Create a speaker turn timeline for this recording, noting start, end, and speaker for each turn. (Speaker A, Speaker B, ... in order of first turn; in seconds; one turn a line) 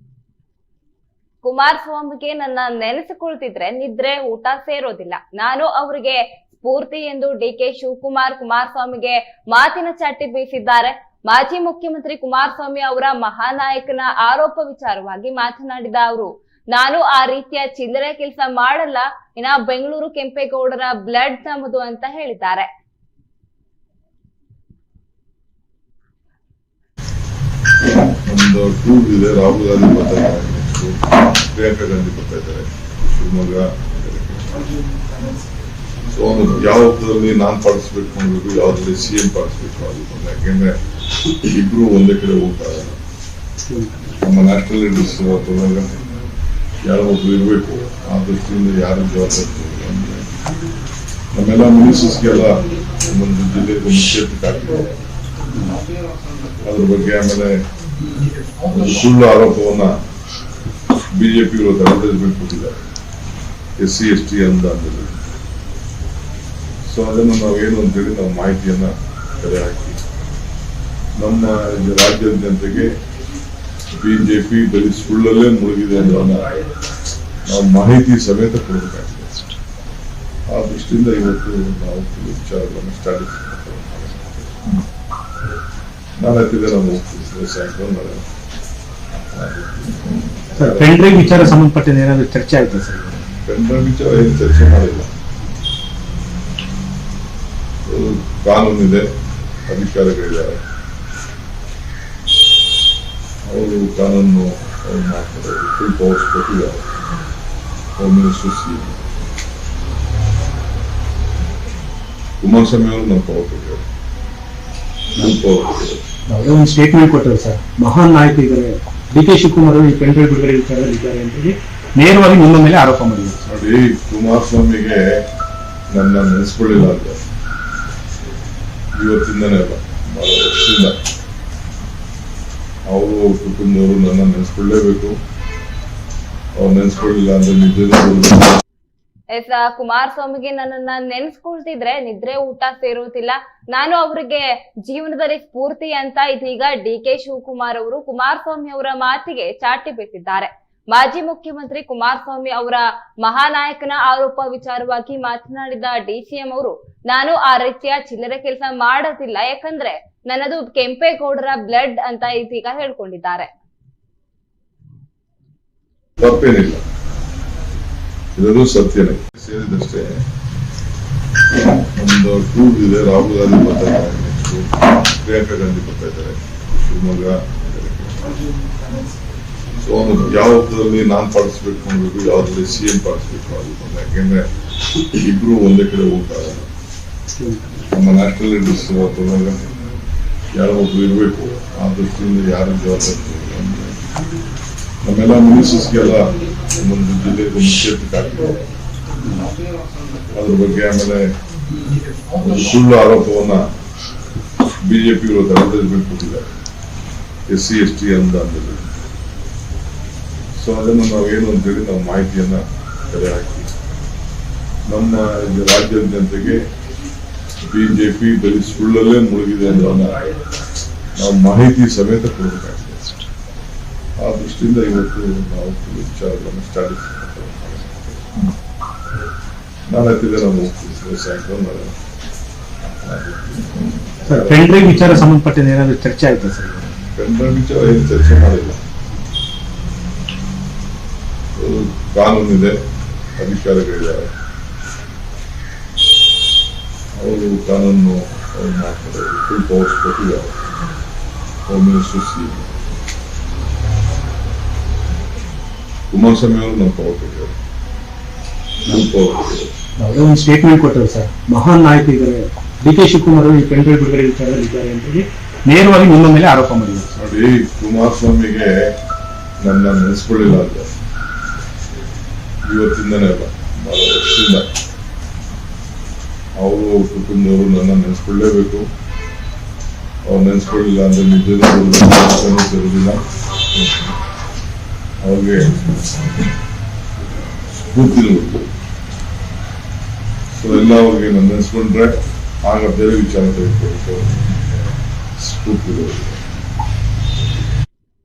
Speaker A: 1.4-22.7
Speaker B: 28.2-34.7
Speaker B: 36.1-40.8
Speaker B: 41.4-43.0
Speaker C: 43.7-44.0
Speaker B: 44.2-46.0
Speaker B: 46.8-50.2
Speaker B: 51.3-54.9
Speaker B: 56.6-57.5
Speaker B: 58.6-60.0
Speaker B: 61.1-62.8
Speaker B: 63.8-65.2
Speaker B: 66.9-70.0
Speaker B: 71.2-72.9
Speaker B: 74.0-76.5
Speaker B: 77.4-79.4
Speaker B: 80.5-84.7
Speaker B: 86.2-88.2
Speaker B: 89.3-91.5
Speaker C: 90.6-93.2
Speaker B: 93.4-95.1
Speaker B: 97.8-99.1
Speaker B: 99.7-100.6
Speaker B: 103.4-106.8
Speaker B: 108.0-109.1
Speaker B: 112.4-113.8
Speaker B: 115.2-116.0
Speaker C: 116.3-123.4
Speaker B: 123.5-125.1
Speaker B: 125.9-127.2
Speaker B: 128.9-130.9
Speaker B: 132.9-135.2
Speaker B: 136.5-138.6
Speaker A: 139.3-163.5
Speaker B: 166.2-166.8
Speaker B: 168.4-170.2
Speaker B: 171.9-178.4
Speaker B: 179.8-184.4
Speaker B: 185.2-186.7
Speaker C: 187.4-187.7
Speaker B: 187.9-189.6
Speaker B: 190.5-194.0
Speaker B: 195.0-198.6
Speaker B: 200.3-201.2
Speaker B: 202.3-203.6
Speaker B: 204.8-206.5
Speaker B: 207.5-209.0
Speaker B: 210.6-213.7
Speaker B: 214.9-216.6
Speaker B: 217.7-220.2
Speaker B: 221.1-223.1
Speaker B: 224.2-228.4
Speaker B: 229.9-231.9
Speaker B: 233.0-235.2
Speaker C: 234.3-236.9
Speaker B: 237.1-238.8
Speaker B: 241.6-242.8
Speaker B: 243.4-244.3
Speaker B: 247.1-250.5
Speaker B: 251.7-252.8
Speaker B: 256.1-257.6
Speaker B: 258.9-259.7
Speaker C: 260.0-267.1
Speaker B: 267.2-268.9
Speaker B: 269.6-270.9
Speaker B: 272.6-274.6
Speaker B: 276.6-278.9
Speaker B: 280.2-283.2
Speaker B: 285.2-285.8
Speaker B: 287.7-288.7
Speaker B: 290.5-294.5
Speaker B: 295.4-296.4